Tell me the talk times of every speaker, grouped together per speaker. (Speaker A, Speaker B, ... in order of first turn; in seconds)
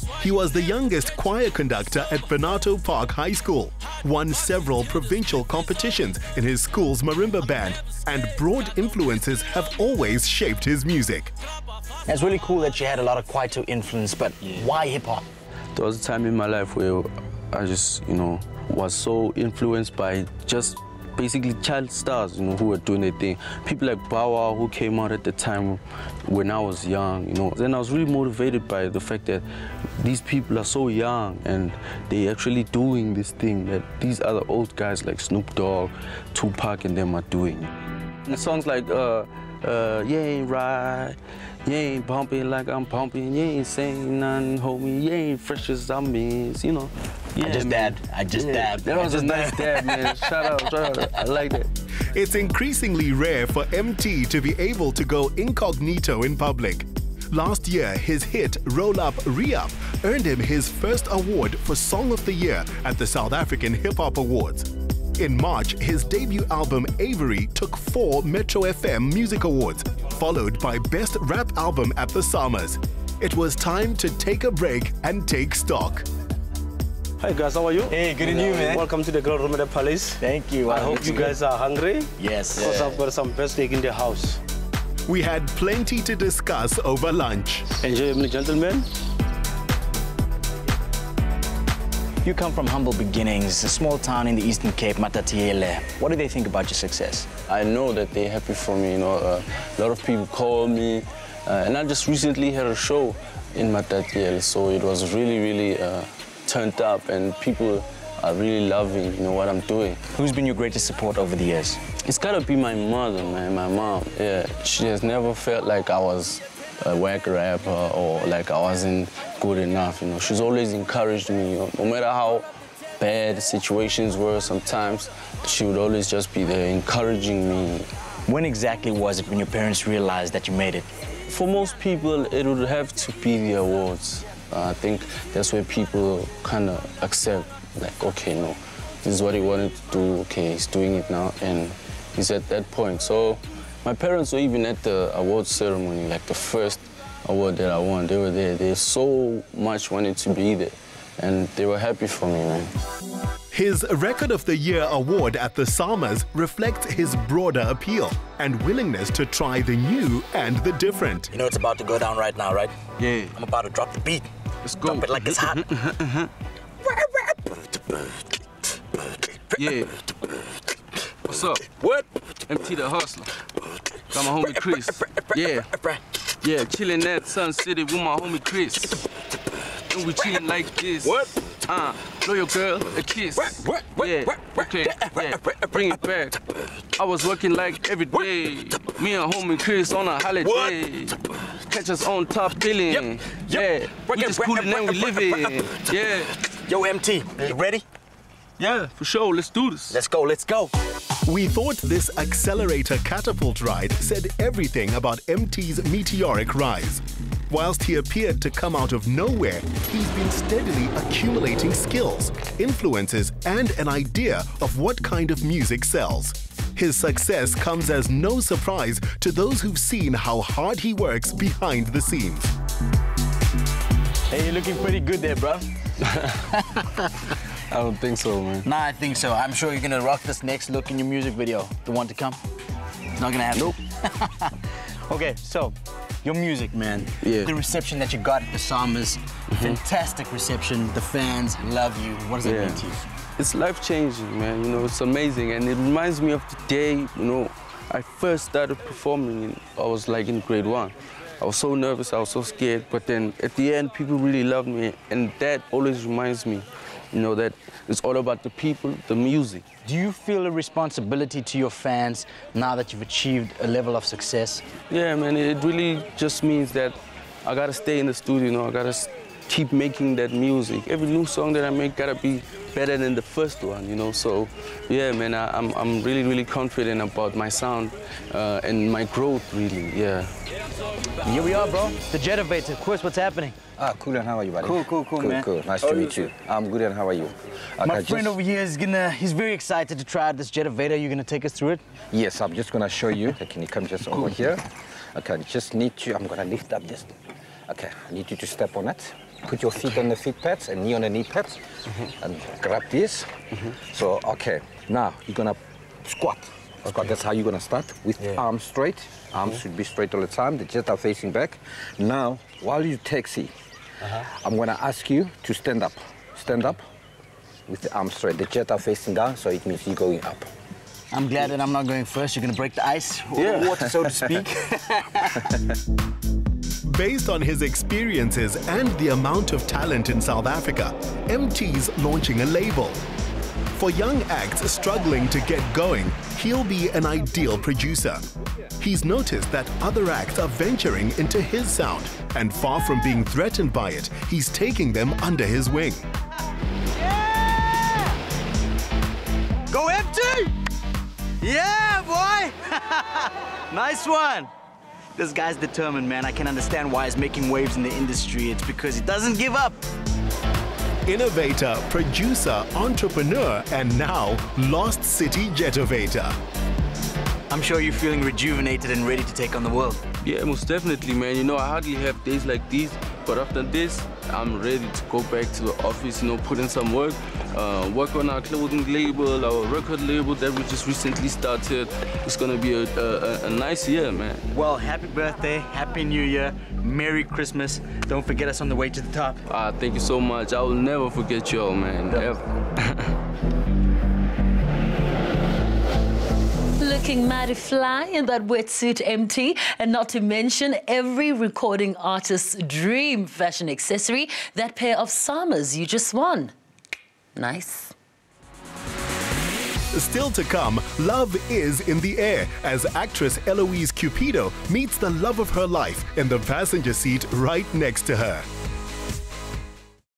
Speaker A: 0.2-11.3, 52.1-76.1, 85.1-87.7, 153.5-161.3, 201.3-222.5, 326.9-333.0, 333.8-338.2, 338.8-346.0, 361.1-366.4, 409.9-418.5
Speaker B: 12.1-15.2, 47.4-50.2, 77.9-78.8, 80.2-81.3, 82.2-82.9, 92.2-97.3, 110.1-111.8, 128.3-130.9, 161.3-162.8, 163.3-164.3, 164.8-165.7, 183.7-184.1, 184.9-185.2, 190.4-190.7, 192.9-195.3, 196.7-197.8, 199.9-200.7, 224.3-225.7, 228.7-232.4, 233.2-234.3, 235.1-243.0, 259.9-264.7, 281.2-283.6, 284.6-286.2, 287.8-291.8, 321.1-325.2, 349.7-350.5, 351.4-354.5, 355.2-359.8, 367.5-370.0, 384.5-389.4
Speaker C: 15.8-29.4, 30.0-37.7, 38.2-51.7, 82.6-82.9, 87.9-88.8, 97.5-110.0, 112.1-122.5, 123.0-127.9, 131.3-152.7, 163.0-163.3, 164.7-166.3, 169.6-169.9, 171.3-173.3, 174.1-175.7, 176.4-179.0, 179.9-186.4, 187.0-191.2, 191.7-196.3, 198.6-199.9, 227.7-228.7, 237.2-237.5, 239.5-239.8, 242.4-242.8, 243.4-259.6, 264.9-280.3, 323.4-323.7, 370.2-384.4, 389.5-393.1
Speaker D: 78.8-79.6, 80.9-82.0, 82.7-84.2
Speaker E: 283.8-288.4, 292.1-297.1, 297.7-301.6, 302.2-313.5, 314.2-316.9, 317.7-320.5
Speaker F: 396.8-406.5, 407.4-407.9